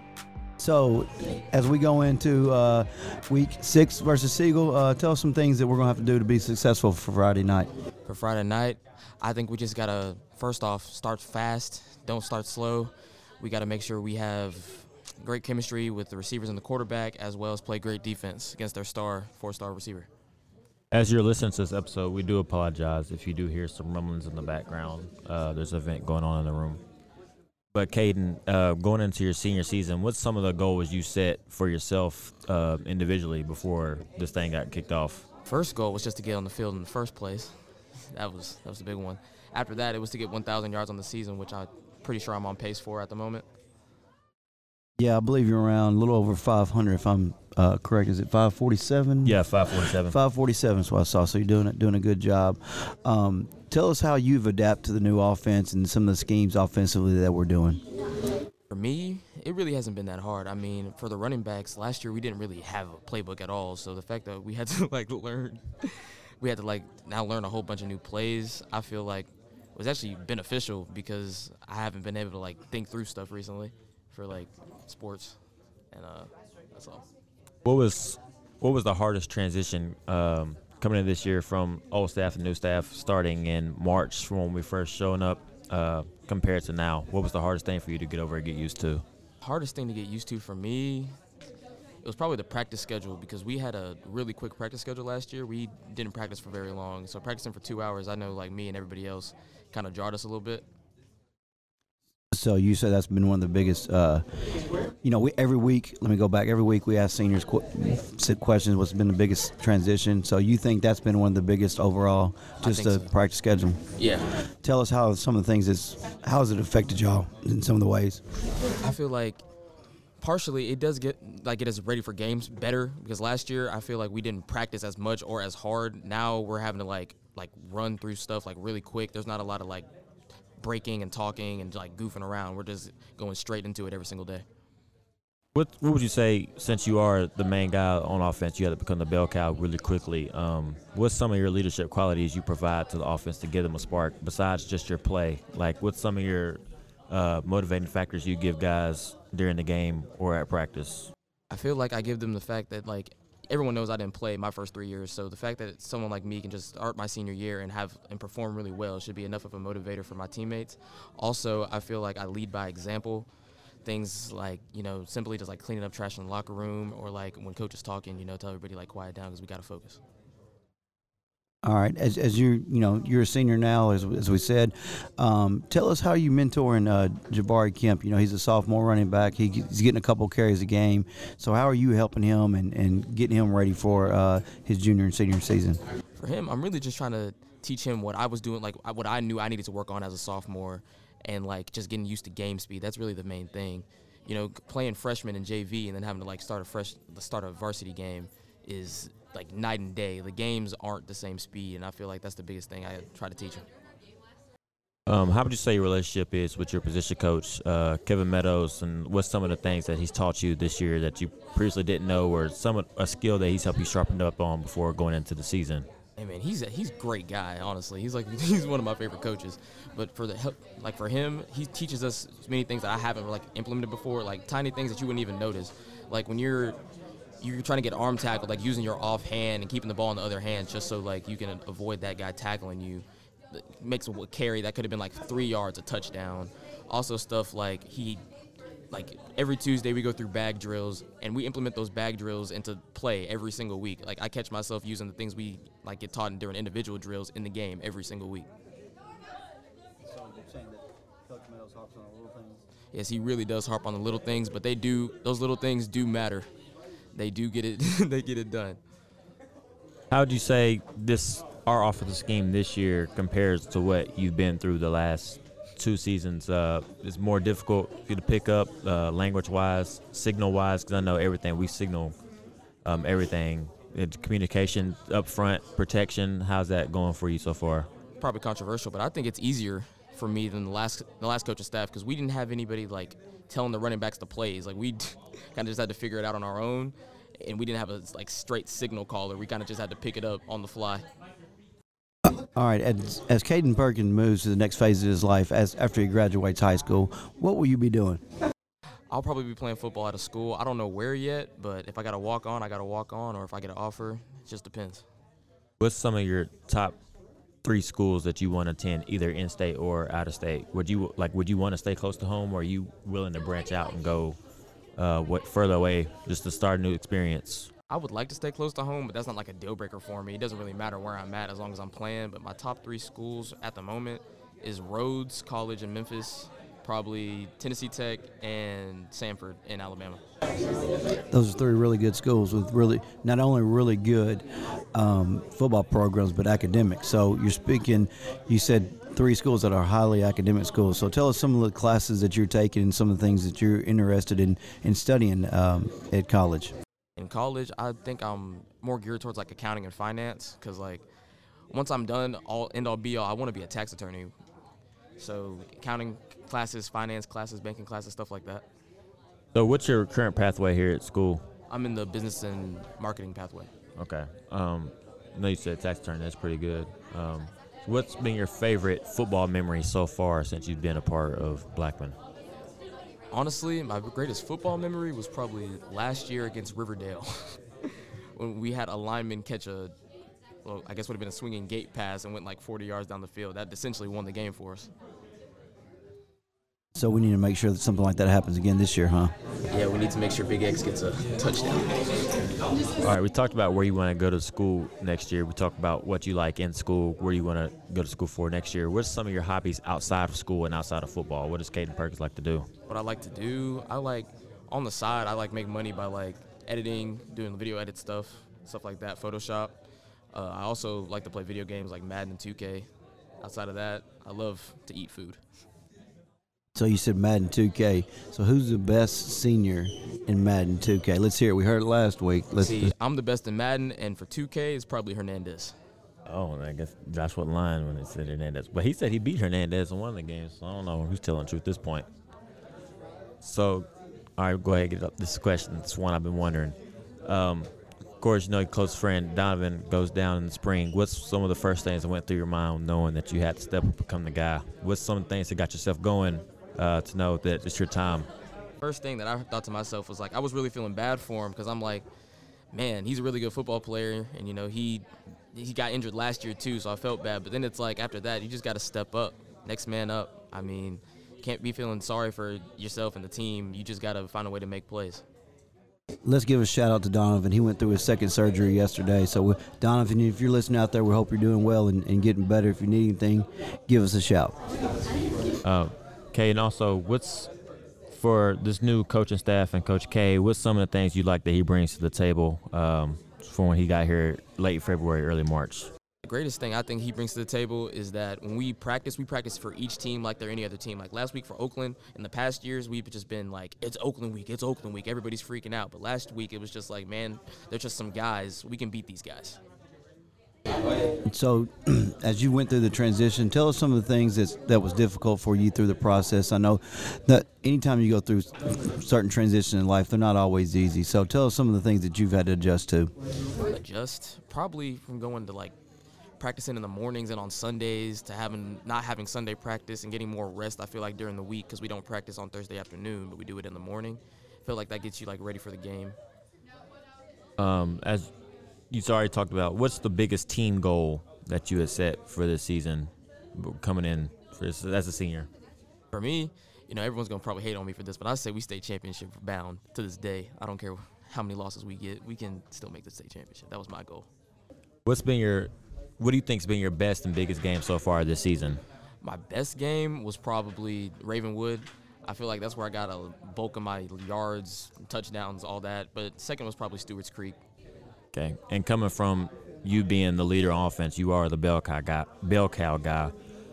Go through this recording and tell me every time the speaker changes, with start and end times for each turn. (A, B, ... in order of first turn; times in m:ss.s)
0:00.6-0:07.7 A
0:08.1-0:20.1 B
0:20.9-0:26.8 C
0:27.7-0:35.3 C
0:35.5-0:37.5 B
0:38.1-0:43.4 B
0:45.0-0:49.4 A
0:49.2-0:50.2 C
0:50.0-0:57.8 A
0:58.7-1:15.4 B
1:15.9-1:17.0 B
1:17.6-1:29.0 C
1:29.4-1:31.1 B
1:32.0-1:40.6 B
1:42.3-1:44.2 A
1:45.0-1:53.8 A
1:52.6-1:53.1 B
1:54.0-1:54.3 B
1:54.6-1:58.2 A
1:58.8-1:59.4 B
2:00.2-2:09.9 B
2:10.6-2:14.4 B
2:15.6-2:31.1 C
2:31.5-2:43.3 B
2:43.8-2:50.0 B
2:51.6-3:05.8 A
3:06.2-3:23.7 B
3:25.1-3:35.9 C
3:36.2-3:46.8 B
3:47.4-3:58.2 B
3:58.9-4:08.5 B
4:10.0-4:12.6 A
4:12.9-4:16.5 B
4:17.2-4:18.8 B
4:20.1-4:32.2 C
4:32.8-4:37.9 C
4:38.2-4:51.0 B
4:52.3-4:58.2 A
4:59.1-5:05.0 B
5:05.8-5:07.0 C
5:07.6-5:14.4 C
5:15.0-5:17.7 C
5:17.9-5:30.2 B
5:31.3-5:34.4 A
5:34.9-5:46.7 A
5:47.2-5:51.1 B
5:51.7-5:54.3 B
5:55.2-5:58.6 B
5:59.6-6:01.4 C
6:01.7-6:03.7 B
6:04.0-6:12.2 C
6:13.3-6:19.9 B
6:20.6-6:24.9 B
6:27.0-6:29.3 A
6:29.7-6:31.9 B
6:33.0-6:42.7 C
6:42.9-6:49.8 B
6:50.3-6:52.9 B
6:53.4-6:55.4 B
6:56.8-7:02.9 A
7:02.6-7:05.8 B
7:06.3-7:12.1 C
7:13.4-7:13.9 C
7:14.4-7:28.3 C
7:28.8-7:32.1 B
7:32.7-7:45.2 B
7:46.2-7:54.6 A
7:55.6-7:57.5 C
7:58.1-8:05.9 C
8:06.2-8:19.6 B
8:21.3-8:33.1 A
8:33.7-8:35.7 B
8:36.4-8:46.2 B
8:47.6-8:48.3 C
8:48.9-8:55.5 C
8:56.1-9:04.3 B
9:05.1-9:08.8 C
9:09.2-9:17.6 B
9:18.3-9:23.3 C